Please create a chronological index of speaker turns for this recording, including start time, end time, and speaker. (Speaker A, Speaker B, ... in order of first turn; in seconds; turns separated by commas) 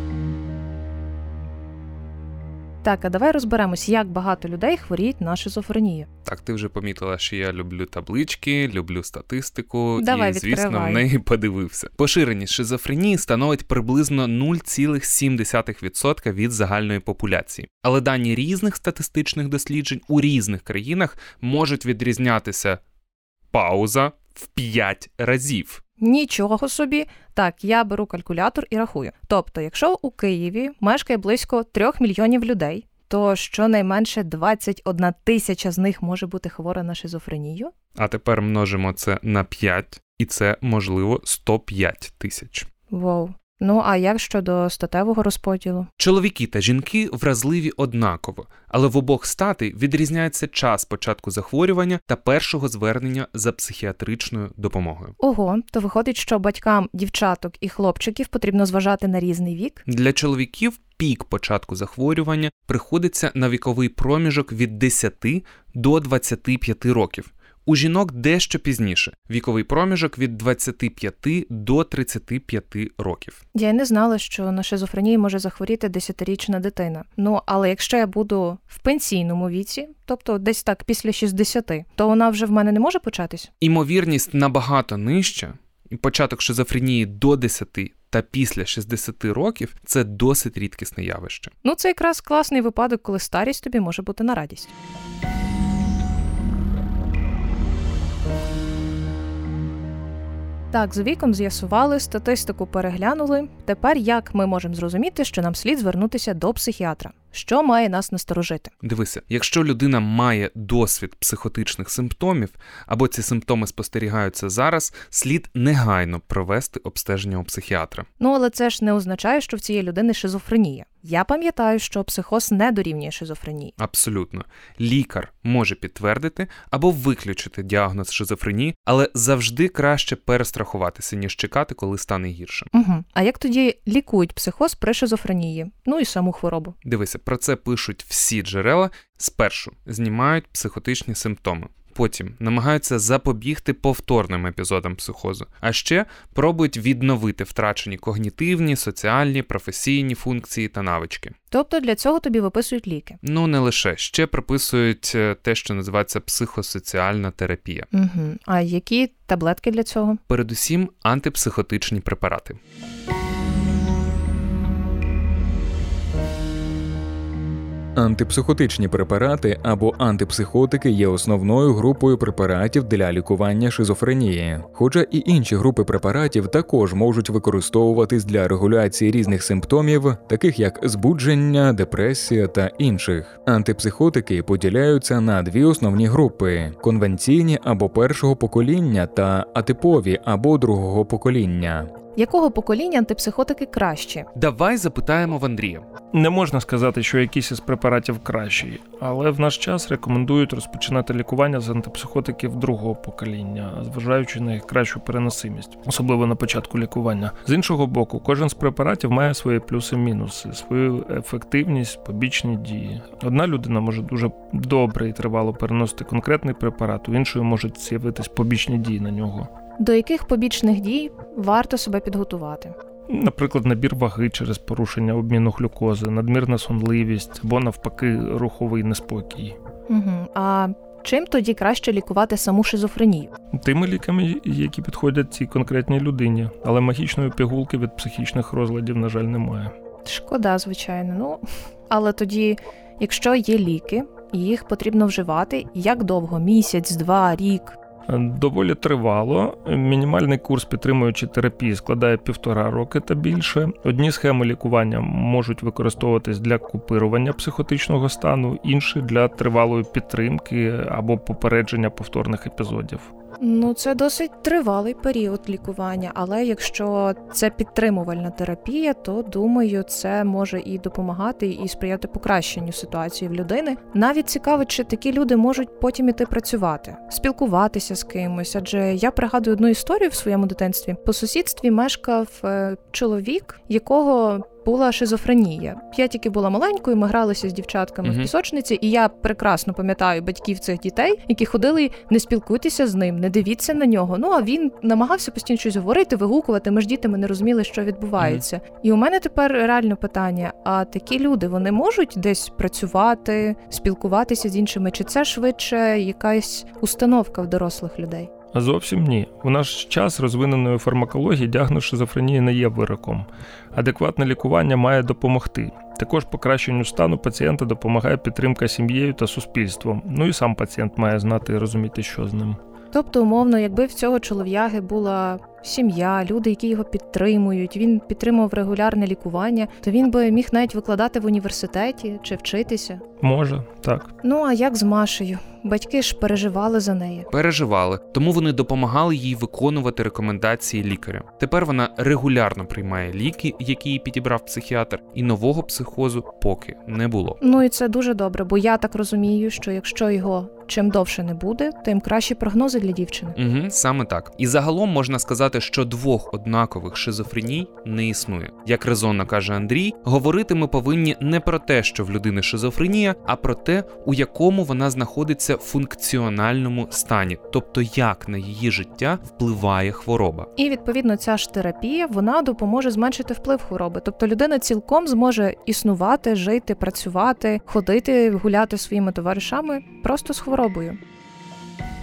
Speaker A: 2.8-6.1, Speaker B: 6.2-22.8, Speaker A: 10.0-11.0, Speaker B: 23.5-25.8, Speaker A: 26.0-37.7, Speaker B: 38.0-42.7, Speaker A: 42.9-45.9, Speaker B: 46.0-55.1, Speaker A: 55.2-59.8, Speaker B: 59.9-73.4, Speaker A: 73.5-83.5, Speaker B: 83.6-91.5, Speaker A: 91.6-94.7, Speaker A: 100.7-108.7, Speaker B: 108.8-118.1, Speaker A: 118.2-123.7, Speaker B: 123.8-132.7, Speaker A: 132.7-136.8, Speaker B: 136.8-151.3, Speaker A: 151.5-153.2, Speaker B: 153.2-157.9, Speaker A: 157.9-160.2, Speaker B: 160.3-162.6, Speaker C: 168.0-191.9, Speaker A: 192.2-194.3, Speaker B: 194.4-195.8, Speaker D: 196.1-219.5, Speaker A: 219.8-222.8, Speaker D: 223.1-229.6, Speaker A: 229.9-233.3, Speaker D: 233.5-239.7, Speaker A: 240.1-247.8, Speaker D: 248.1-263.1, Speaker A: 263.4-308.3, Speaker B: 288.0-288.3, Speaker D: 308.5-322.6, Speaker A: 322.9-333.0, Speaker D: 333.2-334.1, Speaker A: 334.2-337.3, Speaker B: 337.3-347.4, Speaker A: 347.4-353.4, Speaker B: 353.4-370.5, Speaker A: 370.6-381.0